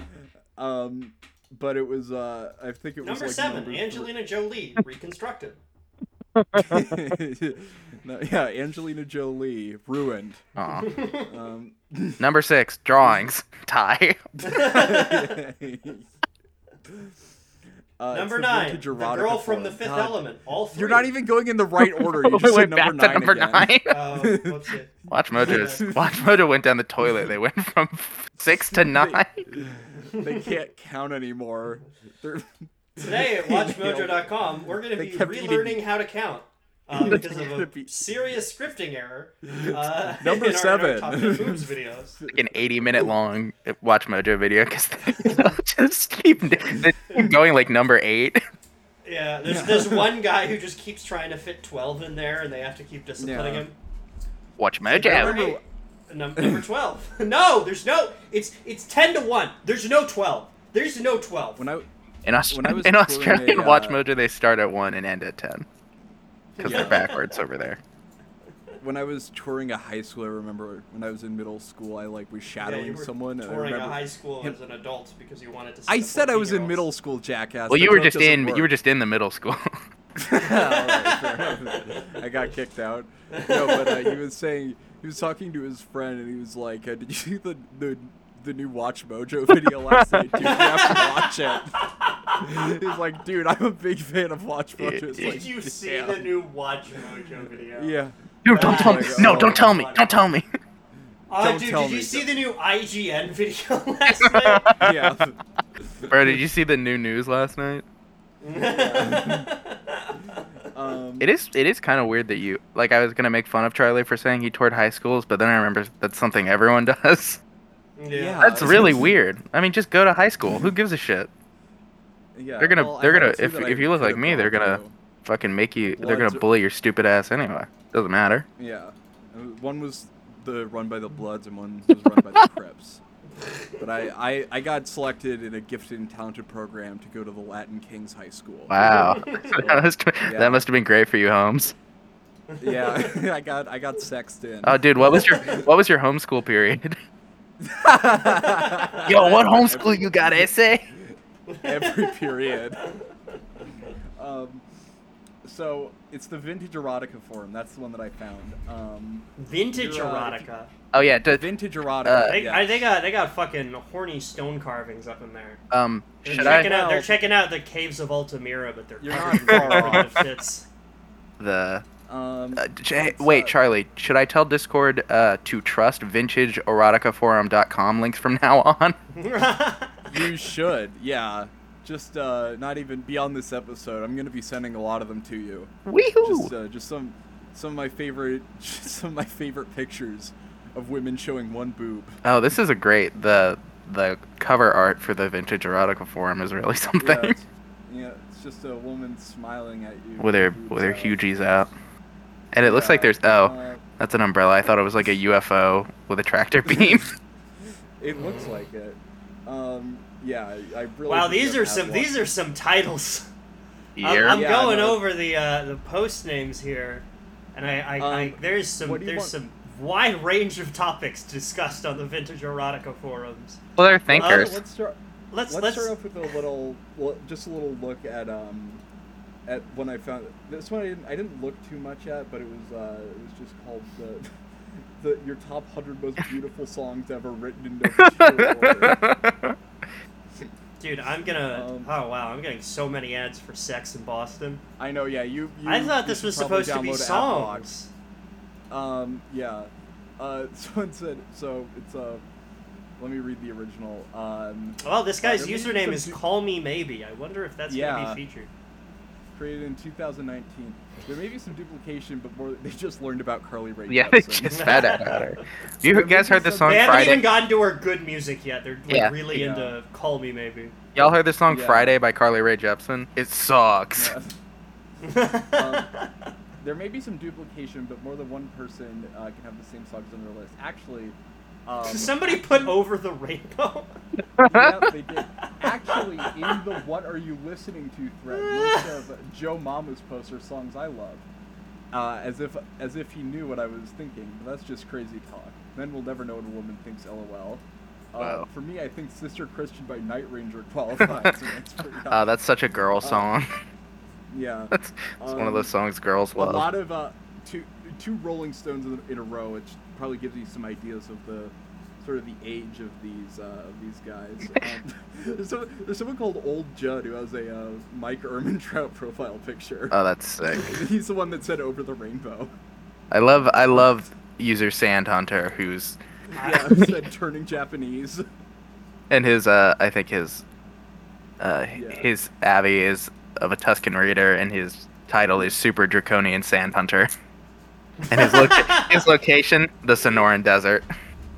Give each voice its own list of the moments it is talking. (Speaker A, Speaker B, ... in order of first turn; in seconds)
Speaker A: 0.6-4.1, 6.5-10.4, 11.2-12.2, 13.0-13.2, 14.4-16.1, 16.9-17.1, 18.0-20.2, 20.7-24.8, 25.4-26.1, 28.7-34.3, 34.9-35.8, 36.9-38.0, 39.4-43.1, 46.7-47.3, 49.5-50.1, 53.2-53.7, 54.9-55.6, 56.4-56.6, 61.6-61.9, 62.5-64.0, 66.6-67.1, 68.8-74.6, 75.9-78.7, 80.2-96.3, 97.8-99.8, 101.4-102.3, 104.7-106.4, 108.6-109.5, 110.7-111.3, 118.1-119.2, 122.3-124.9, 126.0-126.5, 128.6-133.0, 133.7-140.7, 142.6-145.7, 147.6-152.9, 154.0-154.7, 155.4-162.9, 166.3-167.2, 169.0-170.2, 172.1-173.6, 180.1-192.2, 197.0-201.2, 202.6-203.8, 206.7-207.0, 207.6-212.1, 214.2-215.0, 218.0-219.4, 224.1-228.8, 229.5-239.0, 241.5-241.9, 244.8-247.7, 248.7-252.2, 253.0-256.2, 257.7-258.2, 259.3-265.0, 265.8-267.3, 269.3-269.8, 271.5-272.0, 273.9-274.4, 275.5-275.9, 276.6-282.7, 284.4-291.3, 291.9-302.4, 303.0-303.3, 304.3-305.7, 306.4-320.0, 320.5-322.5, 323.4-323.9, 326.4-328.2, 331.8-332.1, 335.3-335.6
Speaker B: 3.0-5.6, 10.8-11.3, 14.4-15.3, 18.1-21.1, 23.9-26.0, 30.1-30.5, 33.0-42.2, 49.0-53.8, 54.9-61.6, 66.6-67.2, 72.6-76.9, 80.3-82.0, 83.3-84.2, 90.4-91.3, 92.0-92.4, 95.1-100.2, 101.3-104.8, 108.4-110.5, 118.0-118.9, 138.8-139.6, 142.5-143.2, 148.2-149.1, 151.5-153.0, 159.4-160.7, 162.2-165.6, 166.2-170.7, 179.1-180.1, 208.2-208.5, 211.1-213.3, 214.0-223.6, 224.1-224.6, 225.3-226.0, 240.8-244.6, 245.7-247.9, 254.8-258.5, 264.5-265.4, 266.6-270.7, 275.0-276.1, 281.8-283.9, 285.4-286.6, 288.3-288.9, 326.4-326.7, 338.0-339.1
Speaker C: 6.4-7.0, 10.6-10.9, 12.2-14.2, 21.8-24.0, 25.1-29.4, 42.3-48.4, 54.6-55.5, 62.2-65.7, 66.6-67.8, 77.7-79.8, 89.9-90.4, 94.8-95.3, 98.5-100.5, 104.2-105.2, 106.1-107.8, 111.2-117.4, 118.4-121.3, 122.6-128.5, 138.7-141.8, 144.6-147.0, 149.0-150.8, 160.9-161.5, 162.0-162.4, 165.7-166.8, 169.4-170.2, 171.4-171.8, 172.6-179.0, 185.9-186.5, 192.2-197.4, 200.2-201.7, 202.5-207.1, 214.0-214.4, 223.8-224.6, 238.0-239.6, 263.9-267.4, 268.9-269.1, 270.9-274.1, 284.4-284.9, 298.2-298.5, 302.1-303.5, 304.7-306.7, 319.9-320.8, 323.1-326.0, 329.1-330.4, 331.4-337.1, 338.1-340.9